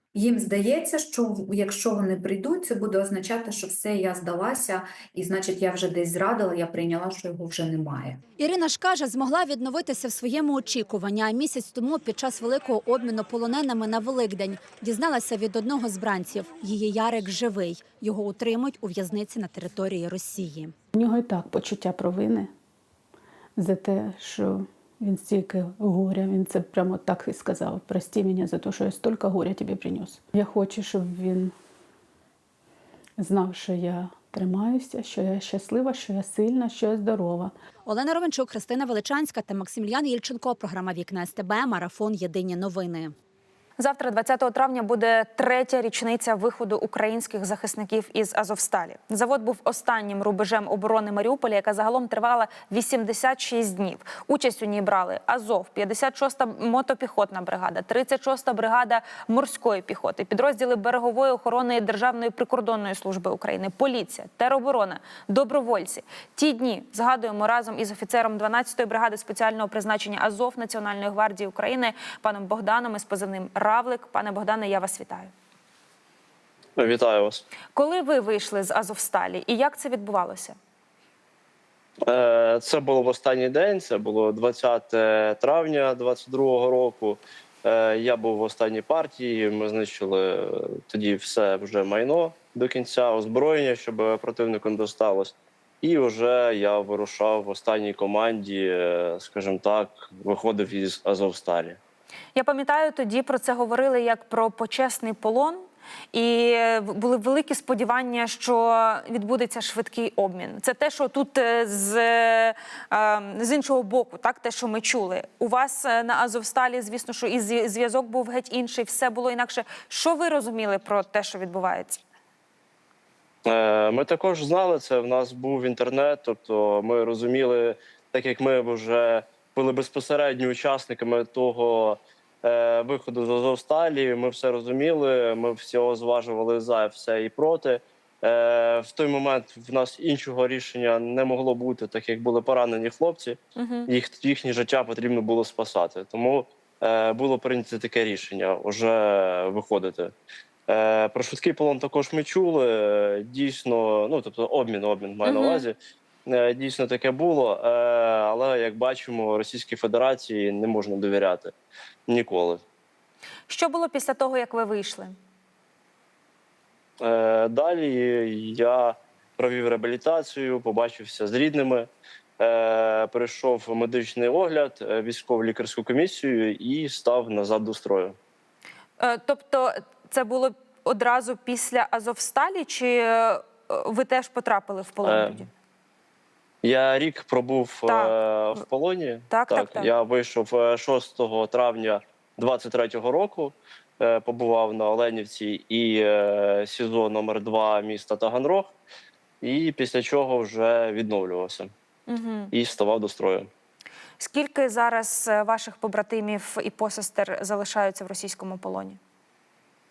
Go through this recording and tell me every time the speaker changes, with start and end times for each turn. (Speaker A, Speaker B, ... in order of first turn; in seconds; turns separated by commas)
Speaker A: 0.1-8.2, Speaker B: 8.4-20.7, Speaker C: 20.9-22.5, Speaker C: 23.6-31.5, Speaker C: 33.2-37.5, Speaker B: 37.8-43.1, Speaker D: 43.8-75.3, Speaker E: 76.8-77.4, Speaker D: 77.7-80.5, Speaker E: 82.1-101.8, Speaker D: 102.3-122.0, Speaker E: 123.5-150.1, Speaker D: 143.6-143.9, Speaker E: 150.7-161.5, Speaker D: 155.2-155.7, Speaker E: 162.1-162.6, Speaker D: 163.5-165.1, Speaker E: 167.0-178.2, Speaker D: 179.0-185.5, Speaker E: 185.0-185.4, Speaker E: 186.6-198.7, Speaker D: 187.9-188.2, Speaker D: 189.3-189.9, Speaker E: 199.4-201.7, Speaker D: 202.1-202.5, Speaker E: 202.5-203.5, Speaker D: 204.2-209.0